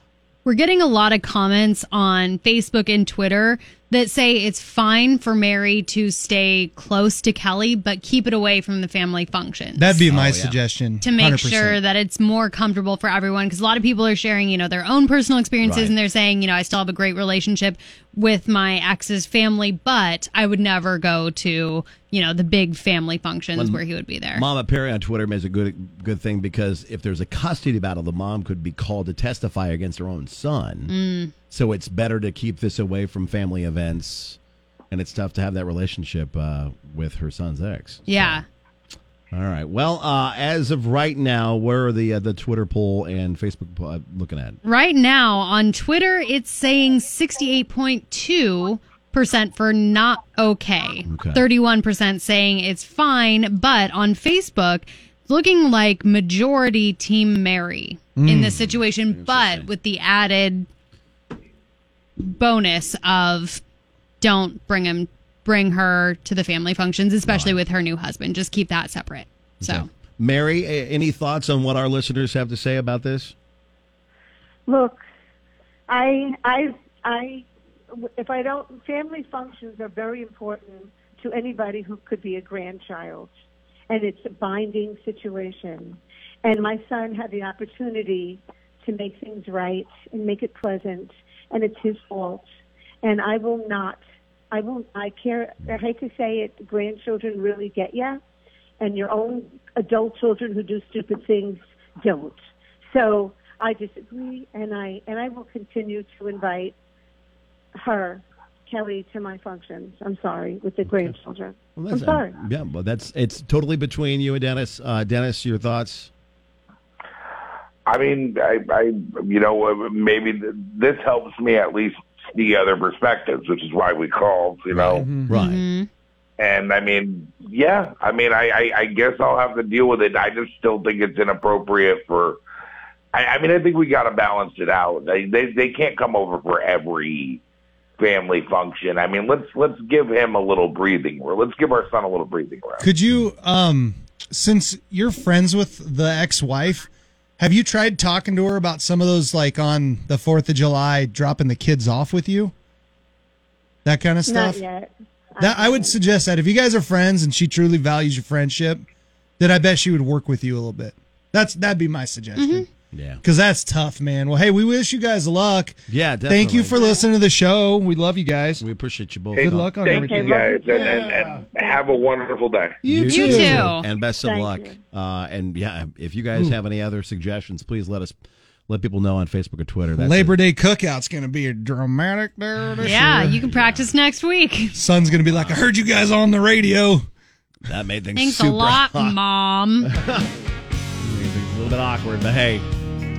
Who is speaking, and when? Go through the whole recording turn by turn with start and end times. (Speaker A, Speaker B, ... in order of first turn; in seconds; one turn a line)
Speaker A: 0.4-10.0
Speaker B: 9.8-11.8
Speaker C: 10.1-10.6
Speaker A: 11.0-24.5
Speaker C: 15.6-15.9
Speaker C: 23.5-30.9
Speaker A: 30.9-31.3
Speaker C: 31.5-34.4
Speaker C: 34.9-38.4
Speaker A: 38.1-38.4
Speaker C: 39.3-44.6
Speaker A: 44.6-60.7
Speaker C: 51.0-51.4
Speaker B: 58.1-58.5
Speaker C: 58.3-59.7
Speaker A: 62.2-63.6
Speaker A: 64.2-69.9
Speaker C: 67.2-67.6
Speaker C: 69.6-73.3
Speaker D: 74.7-75.0
Speaker D: 75.9-77.5
Speaker D: 78.2-83.3
Speaker D: 83.9-92.4
Speaker D: 93.0-94.0
Speaker D: 94.5-98.2
Speaker D: 98.8-102.3
Speaker D: 102.9-106.7
Speaker D: 107.8-112.3
Speaker C: 110.9-111.1
Speaker C: 111.8-116.1
Speaker E: 117.8-125.0
Speaker C: 124.7-125.6
Speaker B: 125.0-125.3
Speaker A: 125.3-125.9
Speaker E: 126.4-132.4
Speaker E: 133.1-137.4
Speaker E: 138.0-142.8
Speaker B: 142.8-146.9
Speaker B: 147.4-152.5
Speaker B: 153.8-154.6
Speaker D: 154.2-156.0
Speaker B: 155.4-158.8
Speaker B: 159.4-162.6
Speaker A: 162.3-162.7
Speaker C: 162.9-163.2
Speaker B: 163.2-165.8
Speaker C: 165.9-166.9
Speaker B: 166.3-168.6
Speaker D: 166.8-167.1
Speaker C: 168.6-169.8
Speaker E: 169.3-172.8
Speaker B: 169.4-171.4
Speaker D: 169.8-171.1
Speaker B: 172.8-173.7
Speaker C: 172.8-178.2
Speaker A: 173.1-173.8
Speaker D: 174.2-174.8
Speaker C: 178.7-180.4
Speaker B: 179.9-183.4
Speaker A: 182.8-184.8
Speaker C: 183.3-183.9
Speaker B: 184.7-187.1
Speaker C: 185.2-185.6
Speaker C: 187.7-189.2
Speaker A: 188.2-189.9
Speaker C: 189.8-190.3
Speaker C: 191.0-192.7